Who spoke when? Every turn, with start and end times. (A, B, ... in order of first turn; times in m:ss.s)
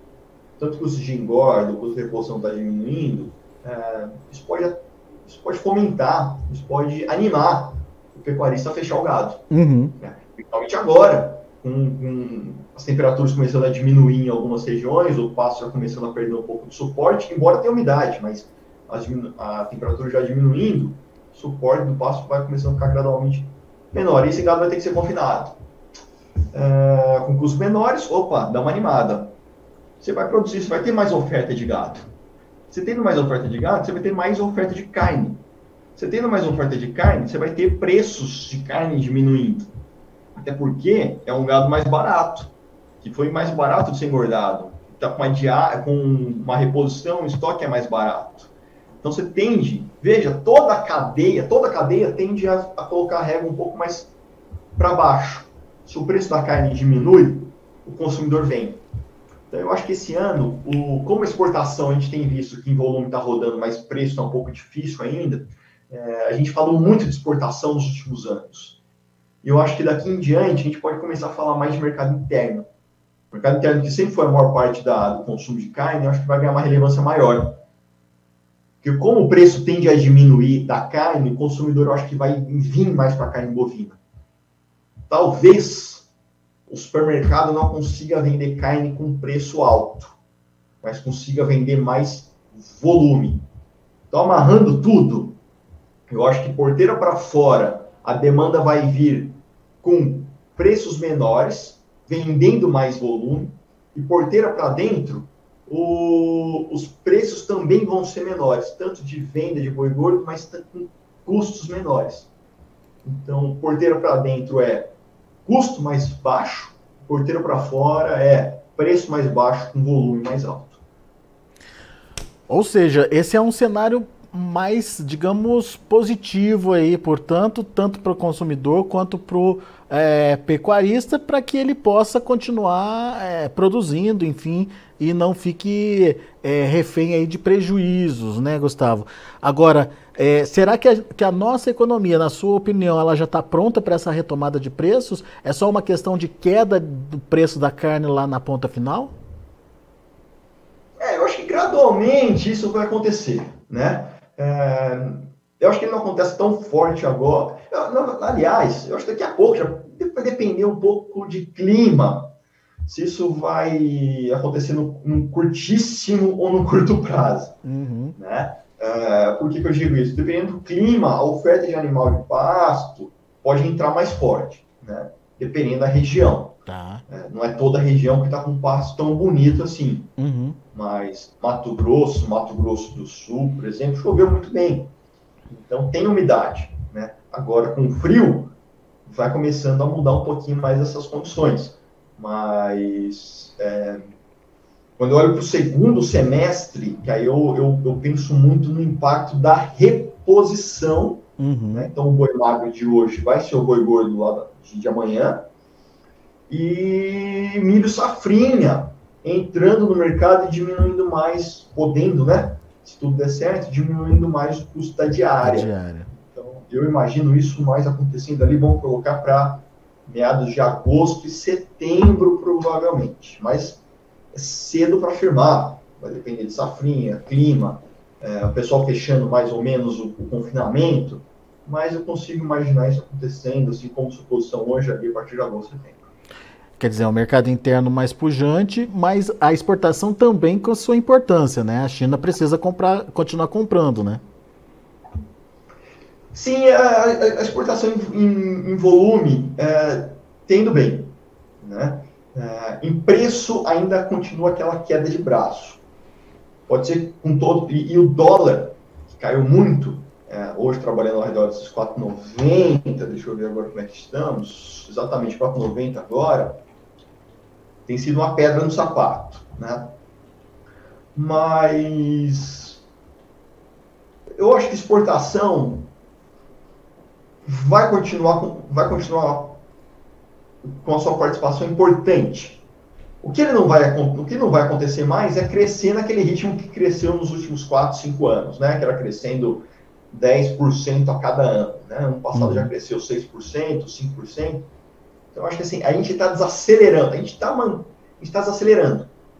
0:00.6-0:09.4 A
0:09.5-0:09.9 B
0:10.0-0:25.5 A
0:26.5-0:29.4 A
0:30.0-0:32.1 A
0:32.7-0:35.4 A
0:36.0-0:39.7 A
0:40.3-0:48.5 A
0:49.0-0:54.1 A
0:54.8-0:58.8 A
0:59.5-1:08.8 A
1:09.4-1:12.7 A
1:13.3-1:17.6 A
1:18.8-1:24.0 A
1:25.1-1:26.1 A
1:26.7-1:30.2 A
1:30.8-1:33.4 A
1:34.1-1:35.4 A
1:36.1-1:52.3 A
1:53.0-1:54.9 A
1:55.4-2:00.8 A
2:02.5-2:29.1 B
2:31.0-2:42.3 A
2:42.8-2:47.5 A
2:47.6-2:48.2 B
2:48.2-2:56.6 A
2:56.7-2:57.0 B
2:57.1-3:00.1 A
3:00.2-3:00.6 B
3:00.7-3:04.9 A
3:05.5-3:08.5 A
3:09.0-3:14.1 A
3:15.0-3:25.4 A
3:21.4-3:21.9 B
3:26.5-3:43.8 A
3:35.4-3:36.1 B
3:44.3-3:56.0 A
3:56.8-4:04.2 B
4:06.3-4:15.8 A
4:16.7-4:26.6 A
4:27.8-4:29.9 A
4:31.1-4:32.8 A
4:34.4-4:35.9 A
4:37.4-4:39.6 A
4:40.6-4:42.6 A
4:43.2-4:54.7 A
4:52.3-4:52.7 B
4:55.3-4:59.1 A